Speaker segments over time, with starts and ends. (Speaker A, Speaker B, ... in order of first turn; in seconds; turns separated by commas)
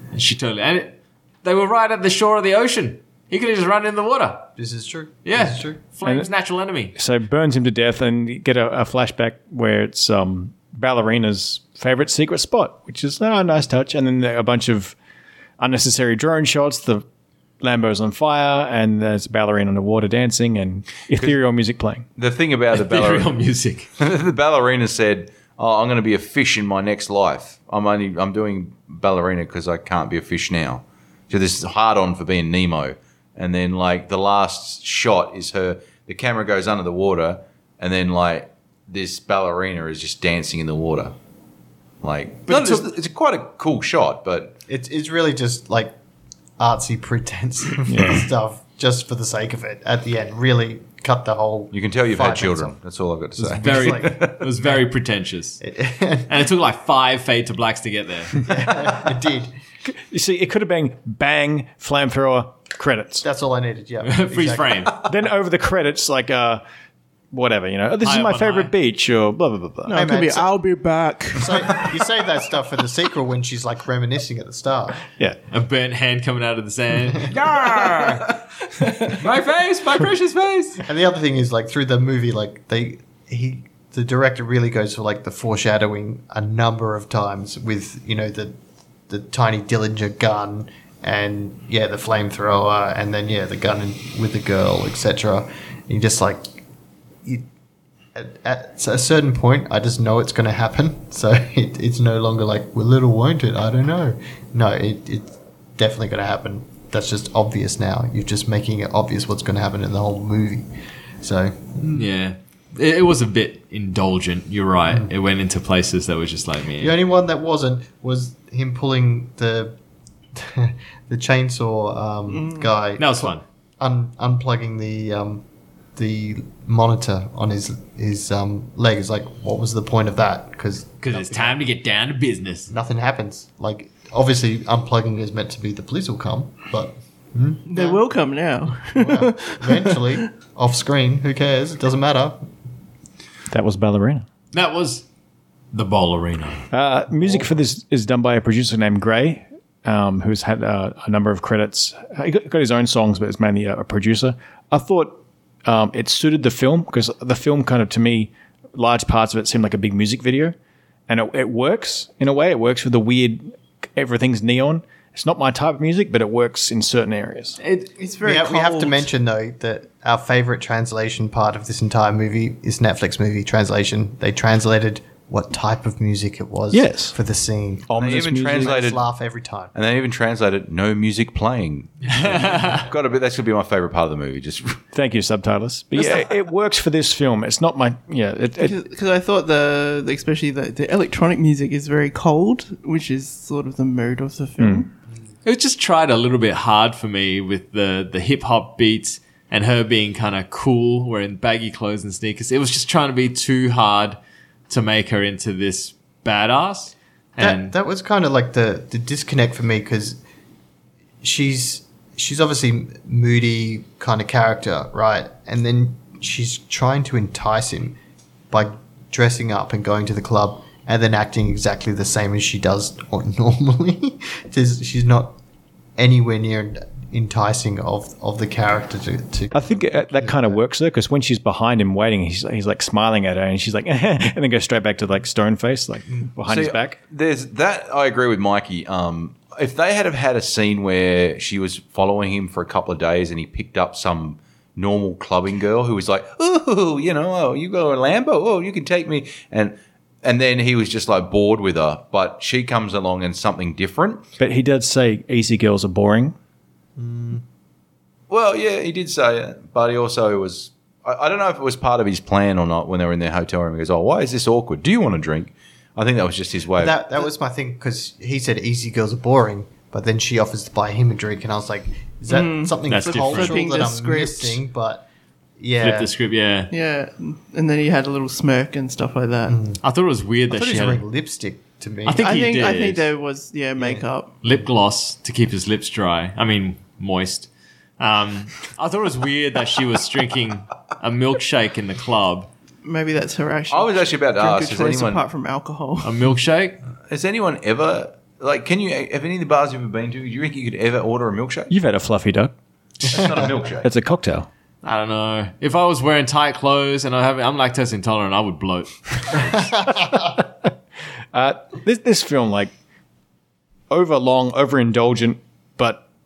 Speaker A: 0.1-4.5, Speaker B: 4.6-5.8, Speaker A: 5.2-6.9, Speaker C: 6.0-6.3, Speaker C: 6.9-14.9, Speaker C: 15.6-17.1, Speaker C: 17.6-22.0, Speaker D: 22.2-23.3, Speaker A: 22.7-23.9, Speaker D: 24.0-41.1, Speaker D: 42.0-44.6, Speaker B: 44.7-45.9, Speaker B: 46.6-52.7, Speaker C: 47.9-48.3, Speaker D: 51.7-54.4, Speaker B: 53.4-54.8, Speaker A: 53.6-55.6, Speaker B: 55.6-56.4, Speaker A: 56.3-58.4, Speaker B: 58.4-59.5, Speaker C: 59.8-63.2, Speaker B: 63.2-65.0, Speaker A: 64.0-65.0, Speaker C: 65.0-66.6, Speaker C: 67.3-70.0, Speaker A: 68.0-68.7, Speaker E: 69.8-71.6, Speaker B: 69.9-70.5, Speaker B: 71.3-75.0, Speaker A: 75.5-78.2, Speaker A: 79.0-80.8, Speaker B: 80.8-88.6, Speaker B: 89.1-96.6, Speaker B: 98.1-110.7, Speaker B: 111.2-112.1, Speaker A: 111.9-116.9, Speaker B: 116.8-119.8, Speaker B: 120.3-125.4, Speaker E: 122.3-122.7, Speaker A: 123.0-123.4, Speaker B: 126.0-131.6, Speaker A: 131.0-132.7, Speaker B: 132.7-138.0, Speaker E: 137.7-140.3, Speaker B: 138.9-142.5, Speaker C: 143.5-144.2, Speaker A: 144.5-145.1, Speaker A: 145.7-146.6, Speaker C: 146.7-160.6, Speaker C: 161.1-167.6, Speaker E: 167.7-169.1, Speaker B: 168.2-179.7, Speaker C: 176.7-177.2, Speaker C: 177.9-178.8, Speaker D: 177.9-179.0, Speaker D: 179.7-184.8, Speaker A: 182.1-182.8, Speaker C: 184.9-188.8, Speaker E: 188.6-194.9, Speaker C: 194.6-194.8, Speaker A: 195.4-207.7, Speaker B: 207.4-210.2, Speaker B: 211.2-217.9, Speaker B: 218.5-225.4, Speaker B: 226.0-230.6, Speaker C: 229.5-237.0, Speaker D: 236.5-254.2, Speaker C: 254.4-256.4, Speaker B: 257.0-257.4, Speaker D: 258.3-267.0, Speaker B: 266.8-275.1, Speaker E: 272.3-274.6, Speaker A: 272.9-273.6, Speaker B: 275.6-276.1, Speaker A: 275.8-276.7, Speaker E: 276.7-279.6, Speaker B: 279.5-279.8, Speaker A: 279.8-281.0, Speaker B: 280.5-282.5, Speaker A: 282.0-283.1, Speaker E: 282.2-284.3, Speaker B: 283.8-284.1, Speaker A: 284.4-287.5, Speaker A: 288.0-292.5, Speaker E: 292.8-296.1, Speaker D: 293.7-295.2, Speaker A: 296.0-296.8, Speaker D: 297.1-301.7, Speaker C: 301.7-302.5, Speaker D: 303.0-303.9, Speaker C: 303.8-304.5, Speaker A: 304.8-309.7, Speaker C: 311.3-312.7, Speaker C: 313.9-316.0